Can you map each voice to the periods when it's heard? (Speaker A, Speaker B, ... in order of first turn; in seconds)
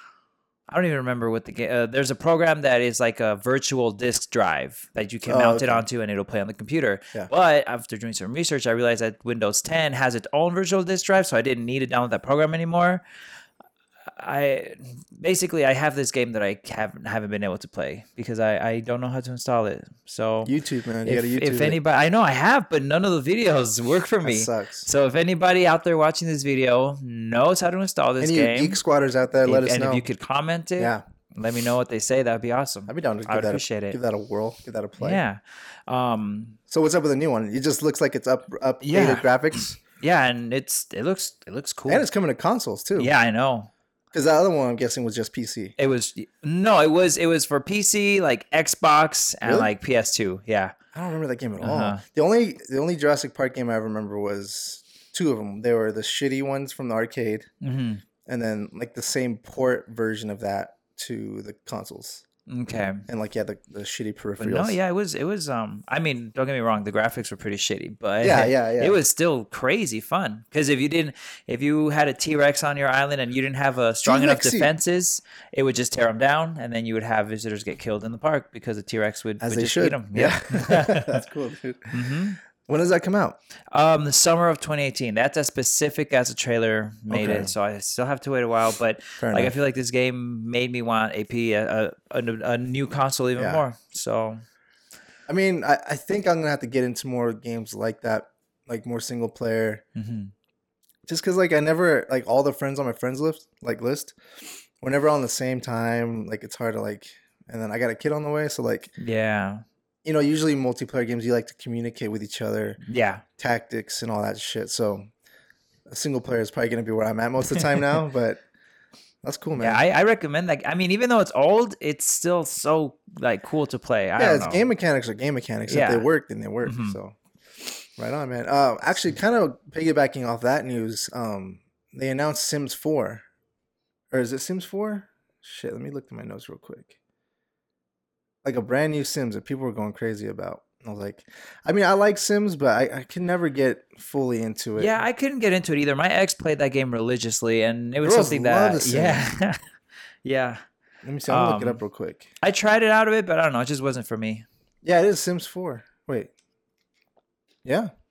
Speaker A: 0.7-13.0, 14.1-20.5, 21.0-28.8, 29.4-34.0, 35.0-36.6, 38.8-42.0, 43.0-43.7, 45.8-50.7, 51.6-52.0, 57.6-58.0, 62.5-63.0, 64.4-81.2, 81.9-82.4, 83.7-94.4, 99.9-100.3, 109.0-109.6, 112.8-113.2, 117.5-117.9, 119.6-124.7, 125.7-126.1, 126.6-127.0, 144.8-149.6, 150.2-150.6, 151.3-151.8, 152.4-154.4
Speaker B: 5.3-5.8, 20.4-21.8, 24.2-24.9, 28.2-30.0, 32.9-35.2, 36.7-39.8, 41.9-43.1, 44.1-45.7, 49.4-49.7, 50.9-57.5, 58.2-62.2, 63.1-64.8, 68.2-69.0, 74.0-74.7, 79.4-83.4, 87.1-87.5, 89.2-89.5, 93.4-93.6, 95.3-99.8, 101.1-108.9, 110.0-112.8, 113.4-115.0, 115.9-118.4, 119.2-119.8, 124.2-127.2, 128.0-133.2, 134.1-136.9, 138.4-144.9, 148.0-149.3, 151.0-152.3, 154.8-156.3, 157.6-157.9